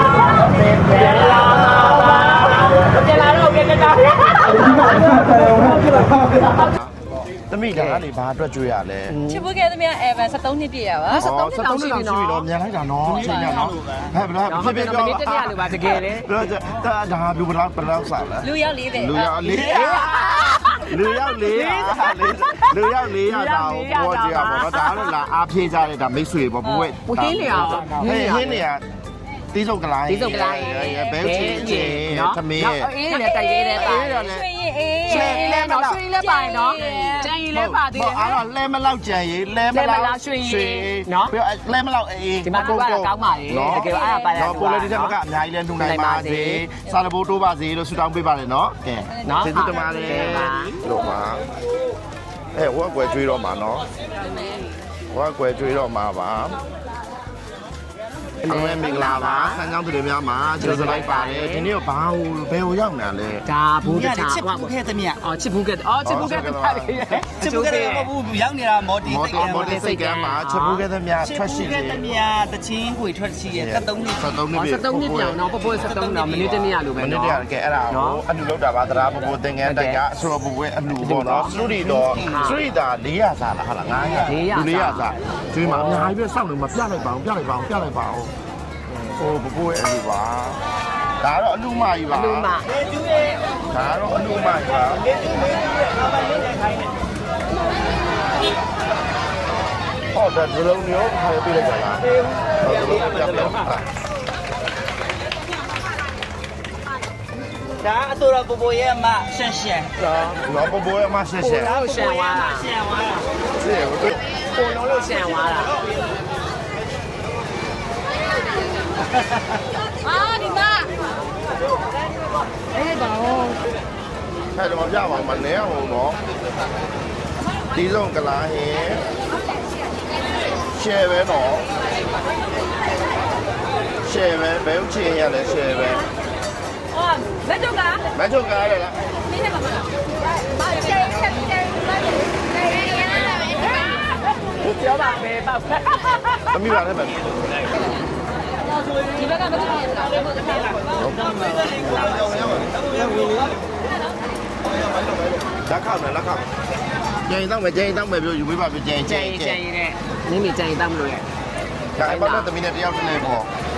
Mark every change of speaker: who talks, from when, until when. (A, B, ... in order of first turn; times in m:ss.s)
0:00.6-0:04.6 A
0:07.5-0:09.2 B
0:07.7-0:08.0 A
0:09.1-0:09.5 A
0:09.3-0:11.2 C
0:11.1-0:20.2 B
0:11.2-0:12.5 A
0:13.2-0:13.8 D
0:14.4-0:16.3 A
0:18.4-0:20.1 C
0:19.6-0:20.9 A
0:20.8-0:28.8 B
0:22.3-0:25.1 A
0:27.1-0:28.6 A
0:29.5-0:33.0 B
0:30.1-0:34.1 A
0:33.1-0:37.3 C
0:33.7-0:34.5 B
0:35.0-0:36.0 B
0:35.1-0:38.4 A
0:36.7-0:51.4 B
0:39.7-0:41.3 A
0:42.4-0:45.2 A
0:44.0-0:44.3 C
0:45.8-0:46.6 A
0:49.2-0:50.8 A
0:52.5-0:53.9 B
0:55.1-0:56.6 B
0:58.4-0:59.7 A
0:58.5-1:03.5 B
1:00.6-1:01.7 A
1:03.4-1:08.1 A
1:03.8-1:05.2 D
1:06.0-1:07.2 B
1:07.3-1:09.8 D
1:09.0-1:12.0 B
1:09.3-1:10.8 A
1:11.3-1:14.2 D
1:13.5-1:15.4 B
1:14.5-1:18.2 A
1:15.7-1:16.6 D
1:17.0-1:28.3 B
1:19.6-1:20.0 A
1:20.9-1:21.5 A
1:21.6-1:22.2 D
1:22.3-1:22.6 A
1:24.1-1:26.1 A
1:29.2-1:30.6 B
1:31.2-1:32.5 B
1:32.1-1:32.8 A
1:33.7-1:35.1 B
1:36.3-1:36.6 D
1:40.1-1:42.1 B
1:42.6-1:43.9 B
1:47.8-1:49.9 D
1:50.0-1:50.4 A
1:50.4-1:51.8 B
1:51.4-1:52.7 A
1:51.7-1:53.2 D
1:53.6-1:54.2 B
1:54.5-1:55.8 A
2:00.1-2:00.9 C
2:03.1-2:03.4 C
2:04.5-2:06.2 B
2:07.7-2:09.0 B
2:10.7-2:11.7 B
2:14.0-2:16.1 B
2:16.9-2:18.0 C
2:18.1-2:19.0 B
2:20.6-2:21.9 C
2:22.5-2:23.7 C
2:23.6-2:26.5 A
2:26.5-2:27.4 B
2:29.2-2:30.6 C
2:30.9-2:32.7 B
2:35.6-2:36.5 B
2:37.3-2:39.6 B
2:39.0-2:41.3 A
2:42.0-2:43.5 B
2:42.0-2:42.5 A